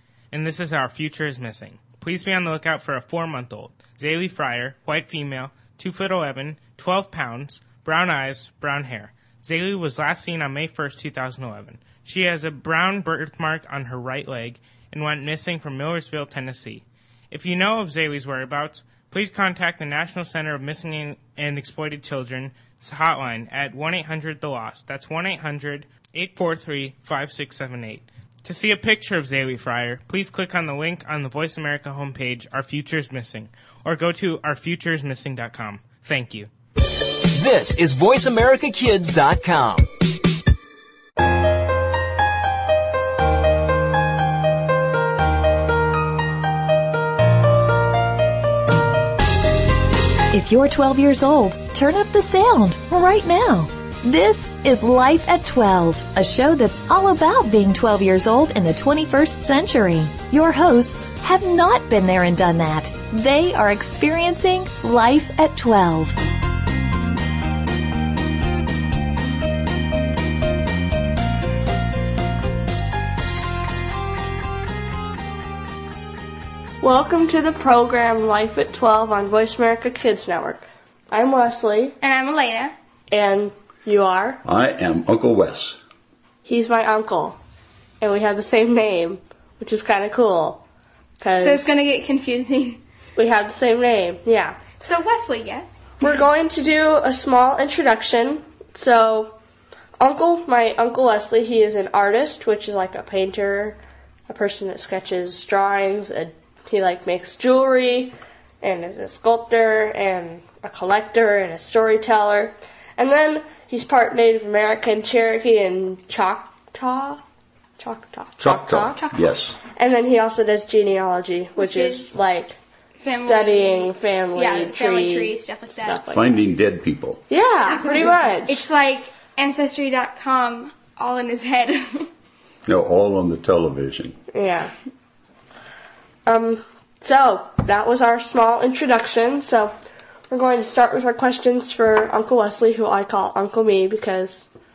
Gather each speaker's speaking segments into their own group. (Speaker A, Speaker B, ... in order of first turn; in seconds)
Speaker A: 0.3-36.5
Speaker B: 37.3-39.9
Speaker C: 50.3-66.2
Speaker D: 76.8-82.0, 83.1-84.4, 86.5-87.4, 88.0-90.6, 91.2-91.7, 93.2-94.7, 96.0-99.3, 100.0-103.8, 104.3-117.2, 117.8-119.1, 119.8-122.6, 123.2-126.4, 127.3-128.7, 134.3-134.7, 136.3-139.7, 140.3-144.5
Speaker E: 82.0-82.8, 91.3-92.8, 94.8-95.8, 121.6-122.2, 123.0-126.0, 127.6-132.1
Speaker F: 84.4-85.8, 118.4-119.6, 126.1-127.3, 132.7-134.2